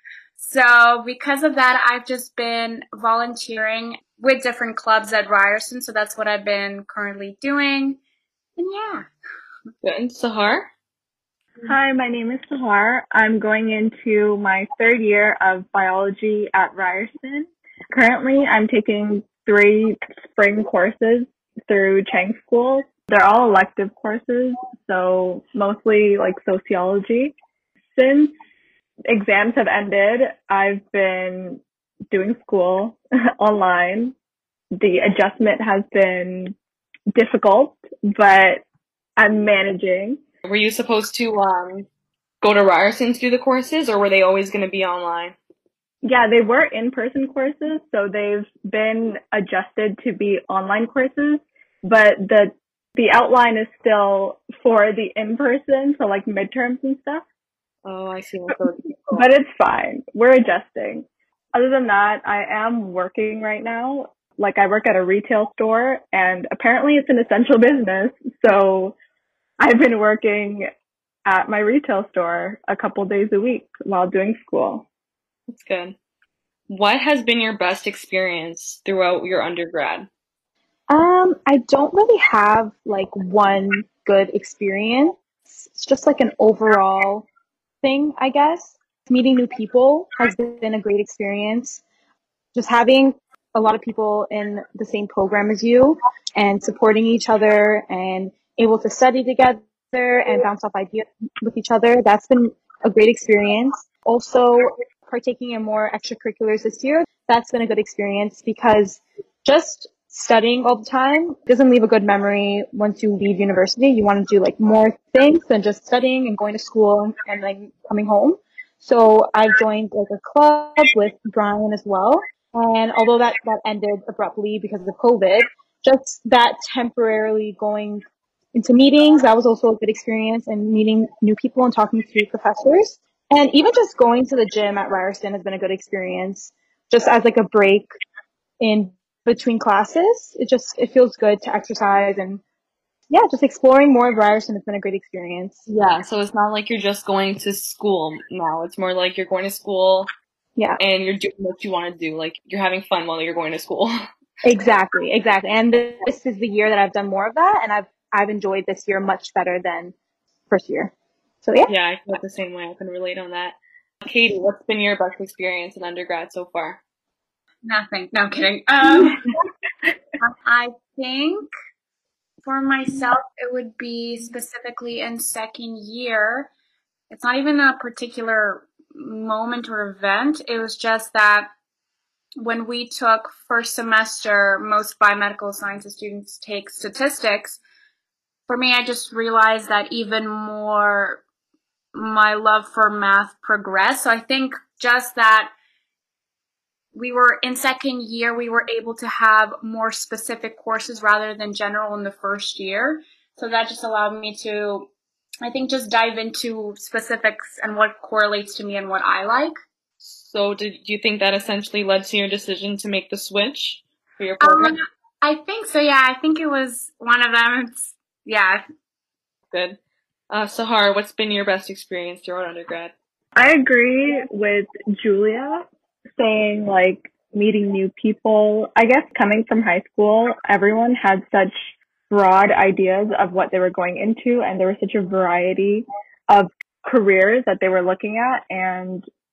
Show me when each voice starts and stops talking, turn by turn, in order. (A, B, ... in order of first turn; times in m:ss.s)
0:00.4-0:08.0 A
0:08.6-0:09.1 A
0:09.8-0:10.7 B
0:11.6-0:27.3 C
0:27.9-0:28.3 C
0:29.1-0:34.1 C
0:34.8-0:36.5 C
0:37.1-0:38.6 C
0:39.2-0:40.2 C
0:40.4-0:41.9 B
0:42.4-0:45.3 B
0:46.0-0:57.2 C
0:57.8-0:59.3 B
0:59.1-1:09.0 C
1:09.6-1:10.7 C
1:11.2-1:14.8 C
1:15.5-1:16.0 B
1:16.7-1:20.1 B
1:20.9-1:27.3 D
1:27.8-1:31.8 D
1:32.5-2:08.0 D
2:08.5-2:17.9 D
2:18.6-2:22.4 D
2:23.1-2:25.6 D
2:25.7-2:30.1 B
2:30.8-2:34.0 B
2:34.4-2:39.9 D
2:40.5-2:40.9 D
2:41.4-2:41.7 D
2:41.7-2:46.8 B
2:47.6-2:49.2 A
2:50.2-2:51.5 A
2:52.4-2:56.5 A
2:57.1-3:01.5 A
3:02.4-3:07.6 A
3:08.5-3:11.2 A
3:11.9-3:15.5 A
3:16.9-3:24.9 A
3:25.4-3:29.5 A
3:30.0-3:34.7 B
3:34.4-3:38.6 A
3:39.5-3:39.8 B
3:40.3-3:42.9 B
3:43.4-3:45.6 C
3:46.2-3:51.5 C
3:52.1-3:59.0 C